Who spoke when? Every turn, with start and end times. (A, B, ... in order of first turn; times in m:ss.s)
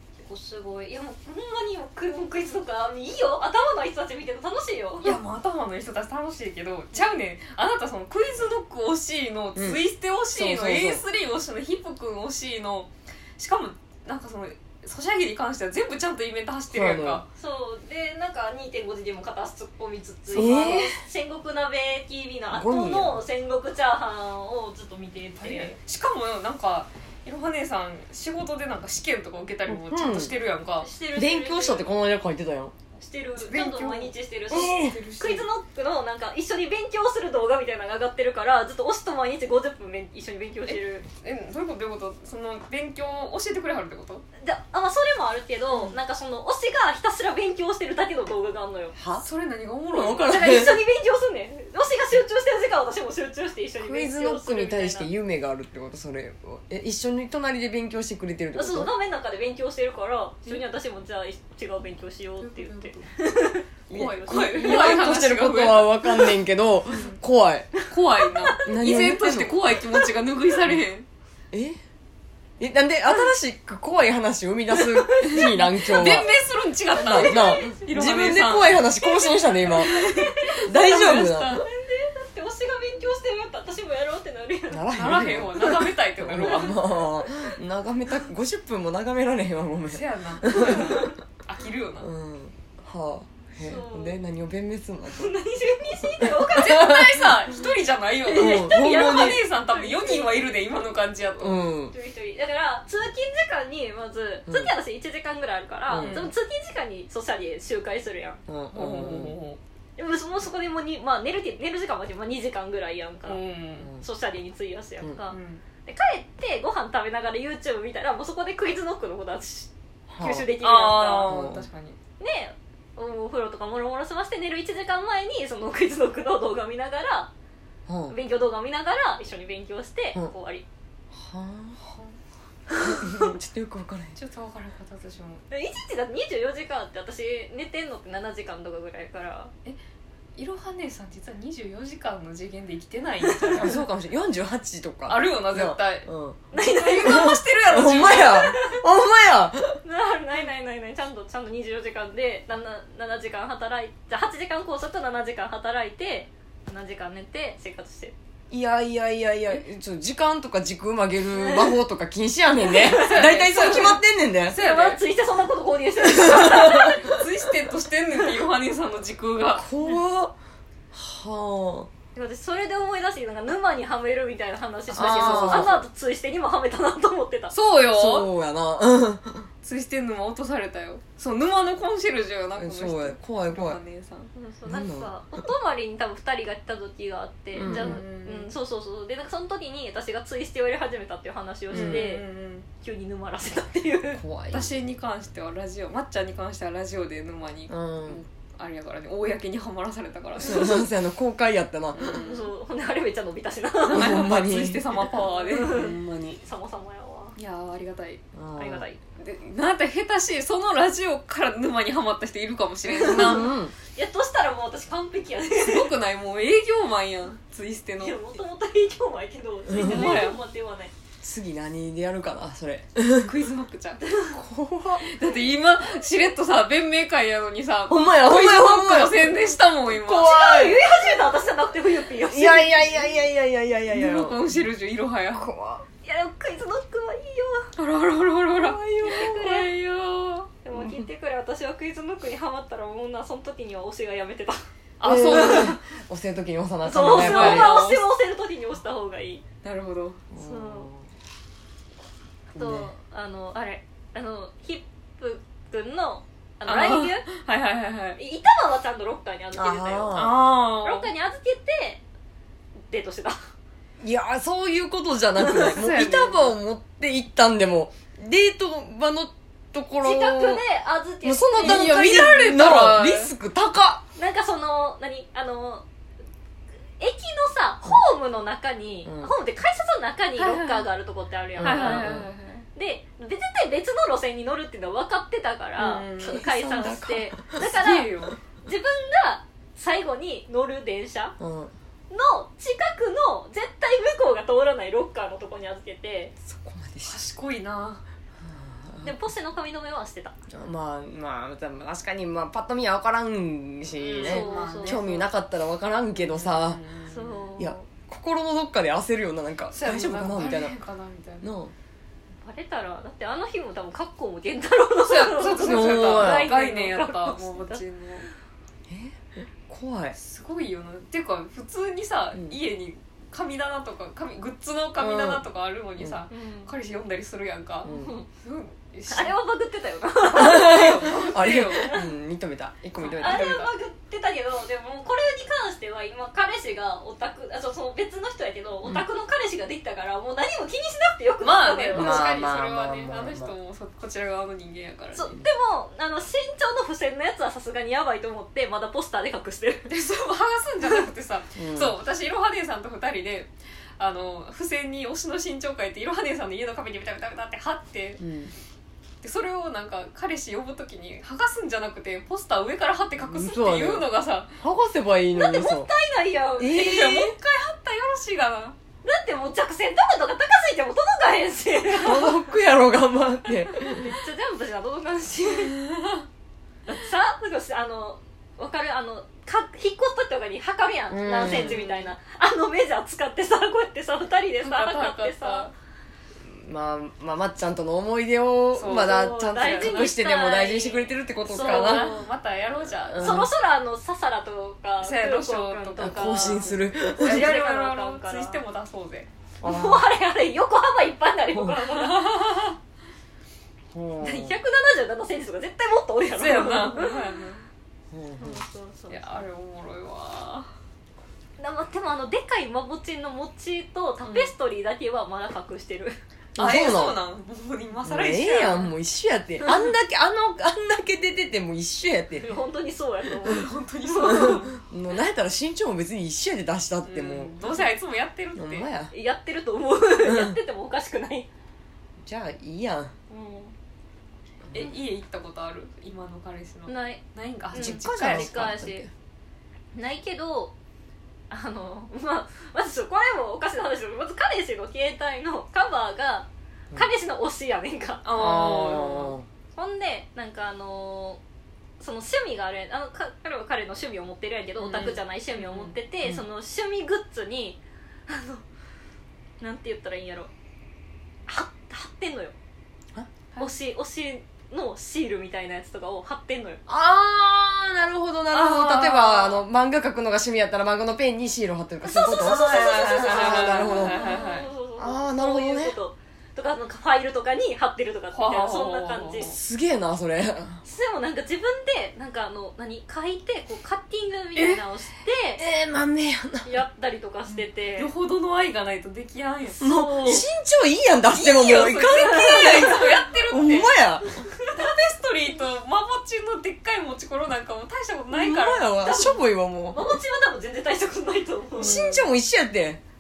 0:00.2-0:05.2 A
0:05.0-0:17.3 B
0:09.6-0:09.8 C
0:10.3-0:11.0 C
0:16.7-0:17.2 C
0:17.4-0:25.8 A
0:20.3-0:20.8 B
0:20.3-0:21.0 C
0:22.5-0:23.2 C
0:25.4-0:30.9 B
0:29.7-0:30.3 C
0:30.8-0:31.9 A
0:31.1-0:32.7 C
0:33.0-0:41.1 A
0:33.4-0:35.5 B
0:34.5-0:35.0 C
0:40.7-0:44.2 B
0:44.4-0:49.0 A
0:49.0-0:49.3 C
0:49.2-0:50.3 B
0:49.9-0:50.8 C
0:50.2-0:55.1 A
0:53.8-0:58.9 C
0:58.5-1:05.1 A
1:02.4-1:03.1 B
1:03.9-1:07.8 C
1:03.9-1:06.4 B
1:07.9-1:11.1 B
1:08.6-1:09.6 C
1:11.5-1:11.8 C
1:12.6-1:16.3 C
1:14.8-1:16.2 A
1:15.3-1:18.8 B
1:16.9-1:21.6 C
1:17.0-1:17.9 A
1:19.0-1:20.8 A
1:19.7-1:21.6 B
1:21.4-1:24.9 A
1:24.7-1:31.1 C
1:24.9-1:26.8 B
1:26.4-1:27.5 A
1:29.9-1:32.1 B
1:32.0-1:35.3 C
1:33.6-1:34.2 A
1:35.1-1:37.0 A
1:36.2-1:37.3 C
1:36.5-1:41.7 B
1:38.2-1:40.6 A
1:38.3-1:39.4 C
1:41.4-1:42.0 C
1:41.9-1:48.4 A
1:45.9-1:46.3 C
1:46.0-1:46.3 B
1:48.5-1:49.4 C
1:48.7-1:49.6 B
1:50.0-1:53.4 A
1:53.2-1:53.9 B
1:54.0-2:01.4 A
1:55.3-1:55.6 B
2:00.1-2:00.5 C
2:00.6-2:02.0 B
2:01.3-2:01.6 C
2:02.2-2:07.3 A
2:07.9-2:08.1 C
2:08.1-2:10.6 A
2:11.1-2:11.8 C
2:11.8-2:12.2 B
2:12.7-2:14.2 C
2:12.7-2:13.3 A
2:14.2-2:15.4 B
2:15.5-2:19.5 A
2:20.4-2:23.8 B
2:23.6-2:29.8 C
2:25.1-2:28.5 B
2:26.5-2:27.4 A
2:28.0-2:28.8 A
2:29.8-2:38.1 A
2:38.5-2:44.6 C
2:41.4-2:41.8 A
2:42.6-2:44.0 A
2:42.8-2:45.0 B
2:44.6-2:47.1 A
2:46.0-2:47.1 C
2:46.5-2:49.7 B
2:49.6-2:50.4 C
2:50.9-2:51.9 C
2:52.1-2:57.6 A
2:54.9-2:55.8 B
2:54.9-2:55.9 C
2:57.5-2:58.3 B
2:57.9-2:59.5 C
2:59.6-3:04.3 B
3:02.6-3:03.8 C
3:04.3-3:14.2 A
3:04.7-3:05.1 C
3:07.5-3:08.0 C
3:07.6-3:08.5 B
3:11.7-3:12.7 B
3:11.7-3:12.1 C
3:14.1-3:14.7 C
3:14.5-3:20.8 B
3:17.7-3:18.2 C
3:20.4-3:22.2 C
3:21.9-3:22.5 B
3:22.2-3:24.3 A
3:23.9-3:25.8 B
3:23.9-3:24.8 C
3:25.2-3:27.3 A
3:25.7-3:26.4 C
3:27.4-3:28.2 B
3:28.3-3:28.8 C
3:28.5-3:29.0 A
3:29.2-3:33.5 B
3:32.9-3:33.7 C
3:33.9-3:35.9 A
3:35.5-3:38.2 B
3:38.0-3:40.9 A
3:39.7-3:40.2 C
3:39.7-3:40.4 B
3:41.2-3:43.3 C
3:43.1-3:44.0 B
3:44.1-3:44.3 A
3:44.2-3:45.0 C
3:45.0-3:50.3 B
3:47.9-3:49.3 C
3:49.9-3:50.8 C
3:50.2-3:52.9 A
3:52.3-3:54.4 C
3:53.9-3:55.5 B
3:55.3-3:55.8 C
3:56.0-3:57.7 A
3:57.8-4:00.5 B
3:58.5-3:59.7 A
3:58.9-3:59.2 C
4:00.6-4:04.6 A
4:00.8-4:01.1 C
4:05.0-4:05.8 B
4:05.0-4:07.9 C
4:05.3-4:05.7 A
4:06.8-4:09.4 A
4:07.0-4:08.1 B
4:09.6-4:10.2 B
4:10.3-4:11.0 C
4:10.3-4:10.9 A
4:12.5-4:12.9 C
4:12.5-4:17.3 A
4:16.6-4:18.2 B
4:18.2-4:22.0 A
4:19.5-4:20.4 C
4:20.1-4:21.1 B
4:22.8-4:23.4 A
4:24.0-4:30.6 C
4:25.4-4:26.6 B
4:30.0-4:33.0 A
4:31.2-4:34.0 C
4:31.6-4:33.3 B
4:34.2-4:35.8 A
4:37.0-4:42.2 A
4:39.1-4:39.3 C
4:40.4-4:40.9 B
4:41.6-4:42.3 C
4:41.6-4:42.6 B
4:42.8-4:48.1 A
4:45.8-4:46.4 B
4:46.2-4:47.7 C
4:47.6-4:48.4 B
4:48.6-4:51.3 A
4:51.4-4:51.7 C
4:52.1-4:56.3 A
4:56.4-4:57.2 C
4:57.0-4:58.0 B
4:58.4-4:59.1 C
4:59.0-5:00.4 A
5:00.5-5:06.8 C
5:04.0-5:05.3 B
5:04.1-5:05.0 A
5:06.2-5:07.4 B
5:07.1-5:07.9 A
5:07.6-5:10.8 C
5:09.7-5:11.5 B
5:11.4-5:11.7 C
5:12.4-5:17.8 A
5:15.0-5:18.3 B
5:15.6-5:16.5 C
5:18.9-5:20.2 C
5:20.1-5:27.9 B
5:25.0-5:25.4 C
5:26.3-5:26.7 A
5:27.8-5:28.2 C
5:27.8-5:28.3 A
5:28.4-5:29.4 B
5:29.1-5:32.1 A
5:30.2-5:31.9 B
5:30.4-5:33.7 C
5:33.0-5:33.7 B
5:33.2-5:42.3 A
5:41.4-5:45.4 B
5:41.9-5:43.5 C
5:45.1-5:49.9 A
5:49.9-5:58.2 B
5:51.6-5:51.9 C
5:58.2-5:58.5 C
5:59.2-6:04.6 B
6:03.2-6:04.1 C
6:04.6-6:05.9 C
6:05.3-6:07.2 A
6:06.6-6:07.3 C
6:06.6-6:08.8 B
6:09.0-6:12.4 A
6:11.9-6:14.1 C
6:13.5-6:15.8 A
6:15.5-6:16.2 B
6:16.9-6:25.7 A
6:21.1-6:21.8 C
6:21.4-6:22.1 B
6:24.6-6:25.7 B
6:26.4-6:32.1 C
6:28.7-6:30.1 B
6:29.1-6:32.2 A
6:31.5-6:33.5 B
6:33.1-6:33.5 C
6:33.2-6:38.6 A
6:35.0-6:39.3 B
6:36.0-6:37.6 C
6:39.6-6:40.1 C
6:39.6-6:42.7 A
6:41.5-6:41.8 C
6:43.9-6:44.6 C
6:44.2-6:47.2 A
6:46.2-6:47.6 B
6:48.1-6:48.6 C
6:48.4-6:49.4 A
6:49.1-6:50.7 B
6:51.6-6:56.2 A
6:56.6-6:57.2 C
6:56.6-6:58.9 B
6:58.0-7:02.5 C
7:02.4-7:04.7 A
7:03.4-7:04.8 B
7:04.3-7:07.5 C
7:07.0-7:08.9 B
7:08.6-7:09.1 C
7:09.1-7:11.5 A
7:10.2-7:10.6 C
7:12.2-7:13.1 C
7:13.3-7:13.8 A
7:14.7-7:18.8 B
7:16.9-7:19.0 A
7:17.7-7:19.1 C
7:19.9-7:20.7 A
7:21.5-7:28.8 A
7:28.2-7:29.4 B
7:28.4-7:29.5 C
7:29.7-7:31.4 A
7:32.0-7:38.6 A
7:34.8-7:36.0 B
7:39.6-7:40.5 A
7:41.5-7:42.6 A
7:43.6-7:46.8 A
7:46.9-7:54.2 C
7:48.5-7:49.6 B
7:52.0-7:59.5 A
7:52.3-7:54.7 B
7:55.0-7:56.0 C
7:58.3-7:59.5 B
7:59.4-8:00.8 C
8:00.8-8:05.6 A
8:04.6-8:04.8 C
8:05.6-8:06.8 C
8:06.6-8:08.1 A
8:07.5-8:10.4 B
8:09.8-8:10.4 A
8:09.8-8:14.4 C
8:11.4-8:13.1 A
8:11.4-8:14.0 B
8:14.6-8:19.0 B
8:18.3-8:20.2 C
8:19.0-8:22.0 A
8:21.8-8:23.0 C
8:21.8-8:22.2 B